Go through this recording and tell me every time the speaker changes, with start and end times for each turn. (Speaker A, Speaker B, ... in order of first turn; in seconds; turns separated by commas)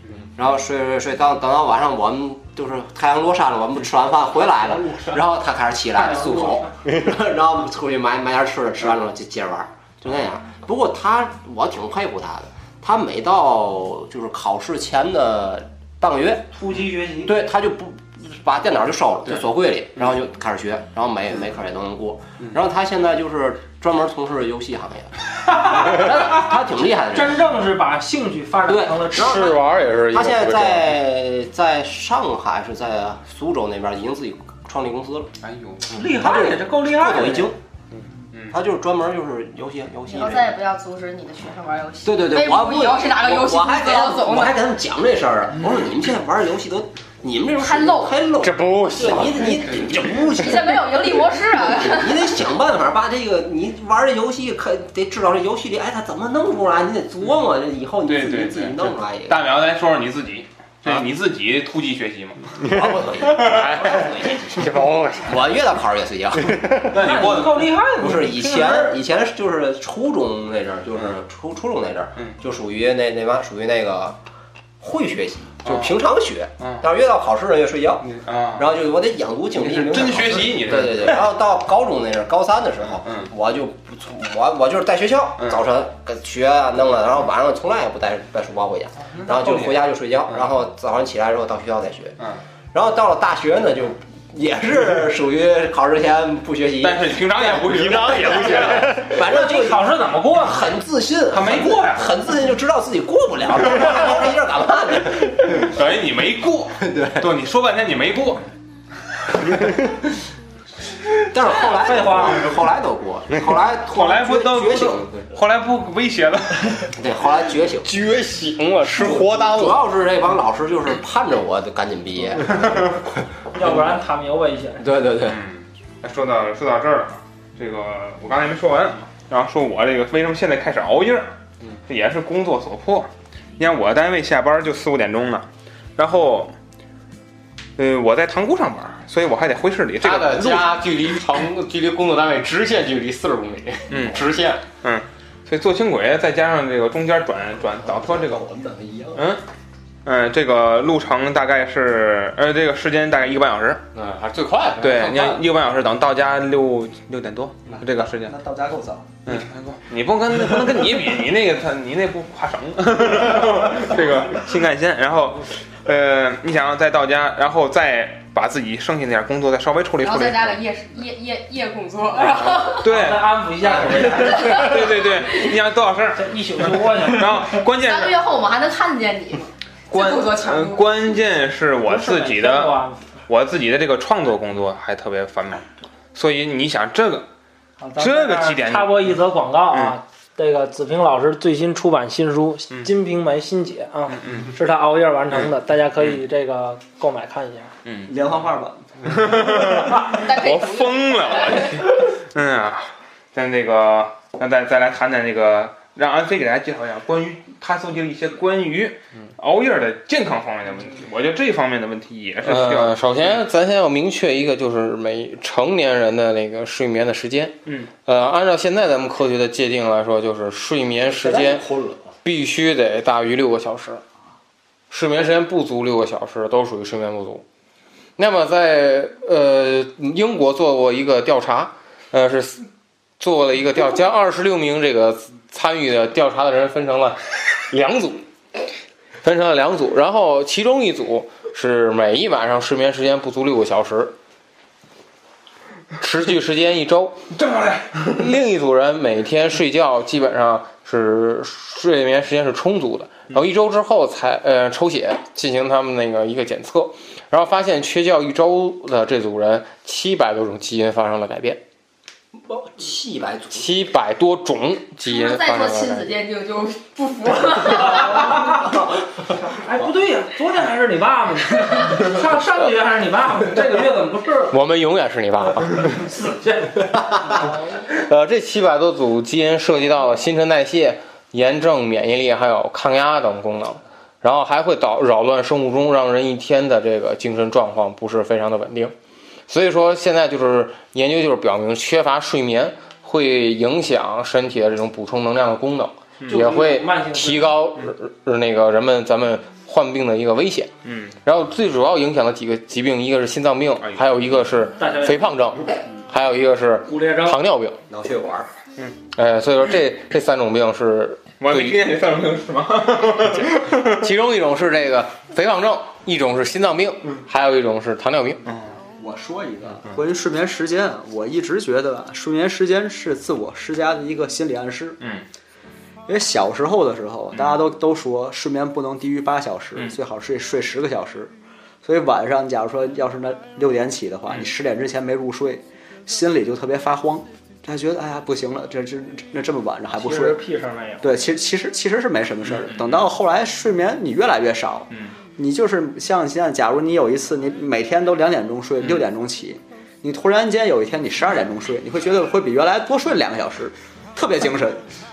Speaker A: 0.3-16.5, Speaker B: 5.9-6.7, Speaker B: 16.5-17.3, Speaker A: 17.2-27.4, Speaker B: 27.1-29.5, Speaker A: 28.7-35.3, Speaker C: 29.1-30.9, Speaker D: 35.4-35.9, Speaker A: 35.9-37.6, Speaker B: 35.9-37.5, Speaker D: 38.3-38.6, Speaker A: 38.5-40.5, Speaker E: 40.1-44.6, Speaker A: 42.0-59.4, Speaker E: 47.6-48.1, Speaker C: 48.4-49.7, Speaker E: 50.3-52.4, Speaker D: 58.0-62.5, Speaker C: 62.6-65.5, Speaker A: 62.6-64.7, Speaker A: 65.2-67.2, Speaker C: 66.4-66.9, Speaker D: 66.9-67.7, Speaker B: 66.9-69.0, Speaker A: 68.0-74.2, Speaker A: 74.8-92.2, Speaker D: 75.6-76.0, Speaker D: 76.6-76.8, Speaker D: 78.0-78.7, Speaker D: 79.5-81.3, Speaker D: 82.9-83.3, Speaker D: 85.4-85.7, Speaker D: 89.1-90.5, Speaker A: 92.7-105.7, Speaker D: 96.8-98.9, Speaker C: 97.7-99.1, Speaker B: 99.1-100.7, Speaker D: 101.3-102.2, Speaker D: 103.8-104.1, Speaker D: 105.4-108.4, Speaker A: 106.8-107.3, Speaker A: 111.3-115.3, Speaker B: 111.8-112.5, Speaker D: 113.9-116.9, Speaker A: 116.9-117.9, Speaker C: 117.8-119.8, Speaker A: 118.8-123.0, Speaker D: 122.5-122.9, Speaker B: 123.5-124.8, Speaker A: 123.6-123.9, Speaker A: 124.8-125.4, Speaker D: 125.2-131.3, Speaker D: 131.9-136.5, Speaker D: 137.8-140.8, Speaker C: 140.0-144.6, Speaker D: 143.9-144.2, Speaker D: 144.8-148.4, Speaker A: 147.8-149.2, Speaker D: 149.1-149.4, Speaker D: 150.0-153.8, Speaker C: 153.9-155.4, Speaker D: 154.8-158.3, Speaker F: 157.8-159.2, Speaker D: 159.2-170.6, Speaker E: 170.0-172.9, Speaker D: 172.4-178.2, Speaker B: 172.8-174.6, Speaker E: 174.1-175.5, Speaker B: 176.1-177.5, Speaker E: 177.7-181.0, Speaker D: 179.9-187.3, Speaker B: 181.8-183.0, Speaker B: 187.8-197.7, Speaker D: 188.0-190.0, Speaker D: 194.2-194.5, Speaker D: 197.8-198.3, Speaker F: 198.1-199.7, Speaker D: 199.0-213.4, Speaker E: 199.8-201.9, Speaker C: 212.4-221.7, Speaker D: 217.7-217.9, Speaker A: 221.1-222.1, Speaker C: 222.2-224.0, Speaker C: 224.9-227.4, Speaker C: 228.2-232.6, Speaker C: 233.2-238.2, Speaker C: 239.2-244.1, Speaker C: 246.0-247.3, Speaker D: 247.3-248.2, Speaker C: 248.0-261.6, Speaker A: 262.3-263.8, Speaker C: 263.5-266.1, Speaker E: 265.0-268.4, Speaker B: 268.1-268.7, Speaker B: 269.4-274.6, Speaker C: 274.5-276.1, Speaker B: 276.0-277.6, Speaker C: 277.0-288.9, Speaker C: 289.5-300.7, Speaker D: 296.2-296.4, Speaker B: 296.3-297.7, Speaker D: 300.8-301.1, Speaker C: 301.2-307.8, Speaker D: 303.8-304.1, Speaker B: 304.8-305.3, Speaker B: 306.8-307.4, Speaker A: 307.9-308.5, Speaker C: 309.1-311.9, Speaker D: 311.4-314.1, Speaker C: 313.3-318.4, Speaker D: 318.4-318.8, Speaker F: 319.0-325.0, Speaker D: 325.0-325.2, Speaker F: 326.1-340.4, Speaker D: 327.3-327.6, Speaker B: 339.9-341.1, Speaker F: 341.0-354.9, Speaker D: 342.4-343.1